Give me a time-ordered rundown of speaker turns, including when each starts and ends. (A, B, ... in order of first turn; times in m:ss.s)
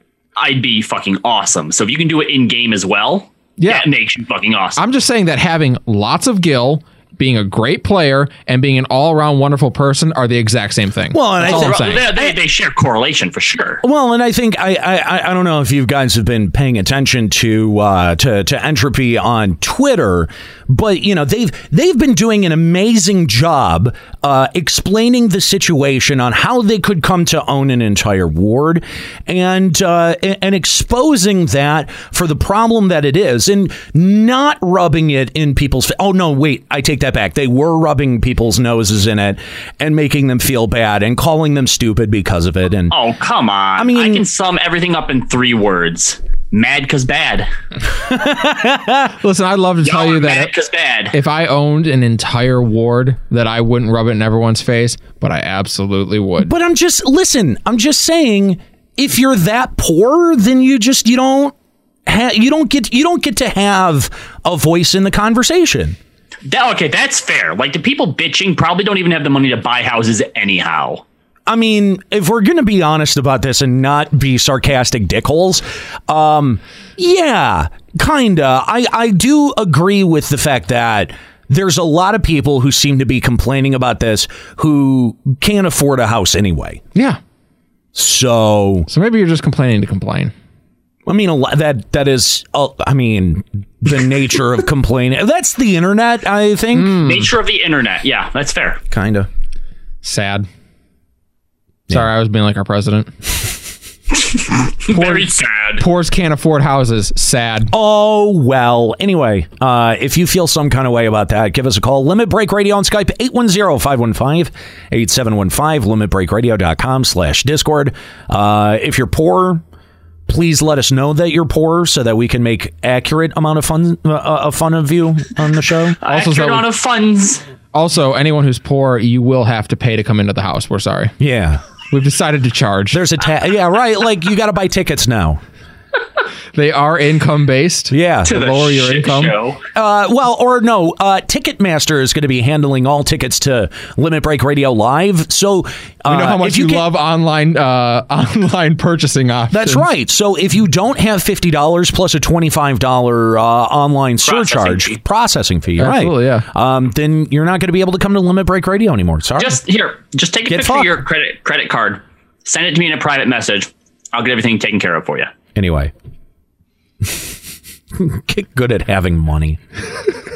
0:00.4-0:04.8 A
0:03.6-0:03.9 B
0:04.8-0:12.1 B
0:11.1-0:12.4 C
0:11.4-0:13.8 A
0:13.8-0:43.0 C
0:42.9-0:47.5 A
0:43.8-0:44.2 C
0:48.0-0:49.1 C
0:49.2-0:50.5 B
0:49.8-0:51.2 A
0:51.1-0:56.5 B
0:56.4-1:01.5 C
1:02.1-1:06.0 C
1:06.5-1:11.0 A
1:11.5-1:26.8 C
1:27.9-1:28.9 C
1:28.9-1:30.3 B
1:31.1-1:37.0 C
1:36.7-1:37.3 B
1:37.0-1:38.8 A
1:38.9-1:39.3 C
1:40.0-1:40.5 B
1:41.9-1:43.1 B
1:44.2-1:45.8 A
1:44.9-1:47.7 B
1:47.7-1:59.6 C
2:00.3-2:06.0 C
2:06.0-2:07.4 A
2:06.0-2:06.7 B
2:07.7-2:11.1 B
2:11.2-2:11.6 C
2:11.9-2:13.0 B
2:12.9-2:15.4 C
2:16.5-2:19.4 B
2:17.9-2:18.3 C
2:18.3-2:19.6 A
2:19.8-2:26.9 C
2:26.1-2:29.9 B
2:29.5-2:39.6 C
2:34.2-2:35.0 A
2:35.8-2:36.5 B
2:39.4-2:45.3 A
2:40.5-2:40.9 C
2:45.6-2:45.9 C
2:47.9-2:49.6 C